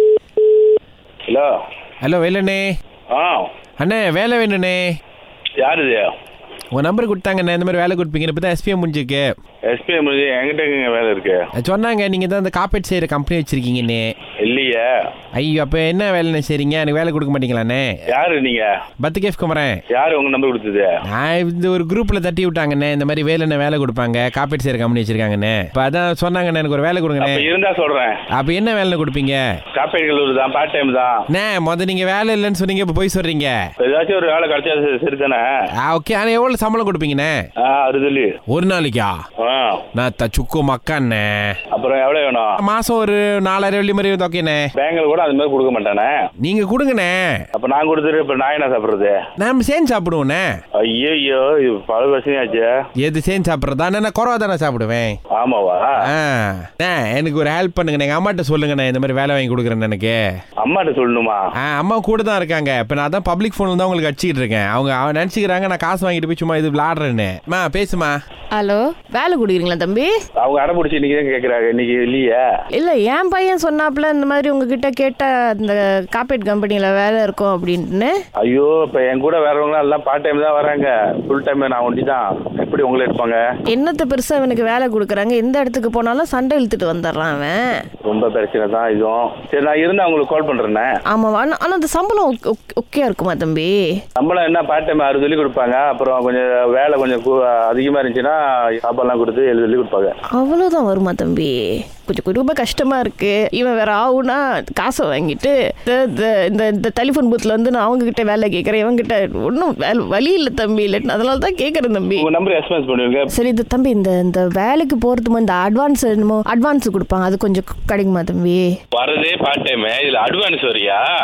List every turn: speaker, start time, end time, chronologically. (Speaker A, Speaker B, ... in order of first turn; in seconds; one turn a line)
Speaker A: 2.0-2.7
Speaker B: 3.1-3.5
Speaker A: 3.8-5.0
Speaker B: 5.6-6.1
Speaker A: 6.7-9.3
Speaker B: 9.7-11.4
Speaker A: 11.6-14.1
Speaker B: 14.4-14.9
Speaker A: 15.4-18.0
Speaker B: 18.1-18.7
Speaker A: 19.0-19.8
Speaker B: 19.9-20.9
Speaker A: 21.1-27.5
Speaker B: 27.2-28.2
Speaker A: 28.3-29.4
Speaker B: 29.8-31.2
Speaker A: 31.3-33.6
Speaker B: 33.8-35.5
Speaker A: 35.8-37.4
Speaker B: 37.6-38.4
Speaker A: 38.5-39.2
Speaker B: 39.4-39.8
Speaker A: 40.0-41.6
Speaker B: 41.7-42.5
Speaker A: 42.6-44.7
Speaker B: 44.8-46.1
Speaker A: 46.4-47.4
Speaker B: 47.5-49.2
Speaker A: 49.4-50.5
Speaker B: 50.8-52.7
Speaker A: 53.0-55.2
Speaker B: 55.3-56.0
Speaker A: 56.0-60.2
Speaker B: 60.6-61.4
Speaker A: 61.6-68.2
Speaker C: 68.5-70.1
Speaker B: 70.4-72.4
Speaker C: 72.7-78.2
Speaker B: 78.4-83.4
Speaker C: 83.7-87.7
Speaker B: 88.0-90.9
Speaker C: 91.1-94.0
Speaker B: 94.2-100.2
Speaker C: 100.3-112.3
Speaker B: 112.2-113.3
Speaker C: 113.3-118.7
Speaker B: 118.9-121.0